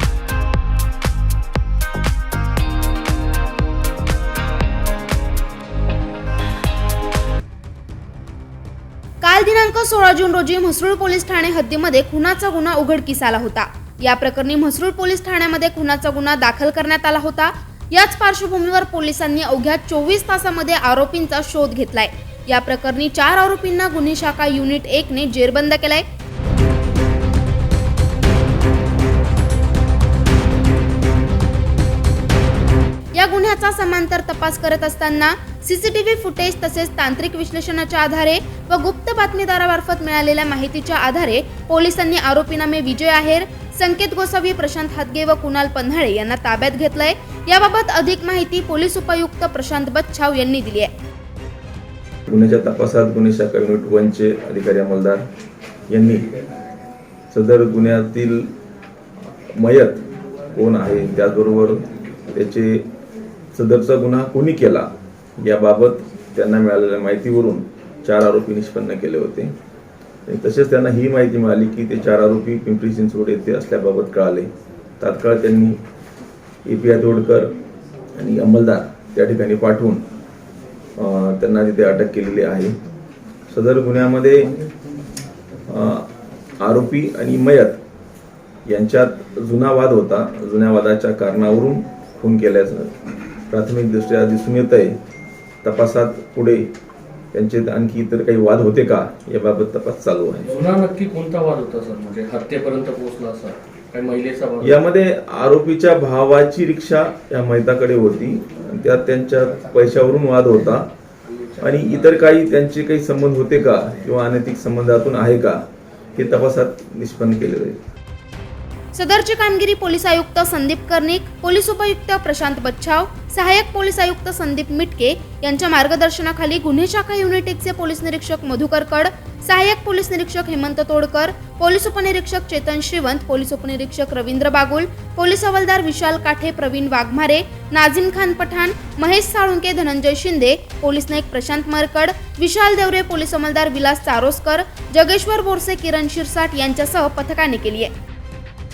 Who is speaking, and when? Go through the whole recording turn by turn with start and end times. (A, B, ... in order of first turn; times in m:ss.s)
0:09.2-0:26.0 A
0:33.1-0:50.9 A
0:52.3-0:55.3 B
0:55.9-0:56.3 B
0:57.3-0:58.5 B
0:59.5-1:02.9 B
1:03.5-1:09.6 B
1:10.3-1:14.5 B
1:15.0-1:15.8 B
1:16.6-1:17.6 B
1:18.2-1:20.0 B
1:21.0-1:22.8 B
1:23.5-1:24.6 B
1:25.7-1:26.1 B
1:26.6-1:27.8 B
1:28.7-1:33.0 B
1:33.5-1:35.0 B
1:35.6-1:36.7 B
1:37.3-1:40.5 B
1:40.4-1:44.8 C
1:44.6-1:50.9 B
1:51.6-1:55.6 B
1:51.8-1:52.2 C
1:56.2-1:57.8 B
1:58.9-2:27.9 A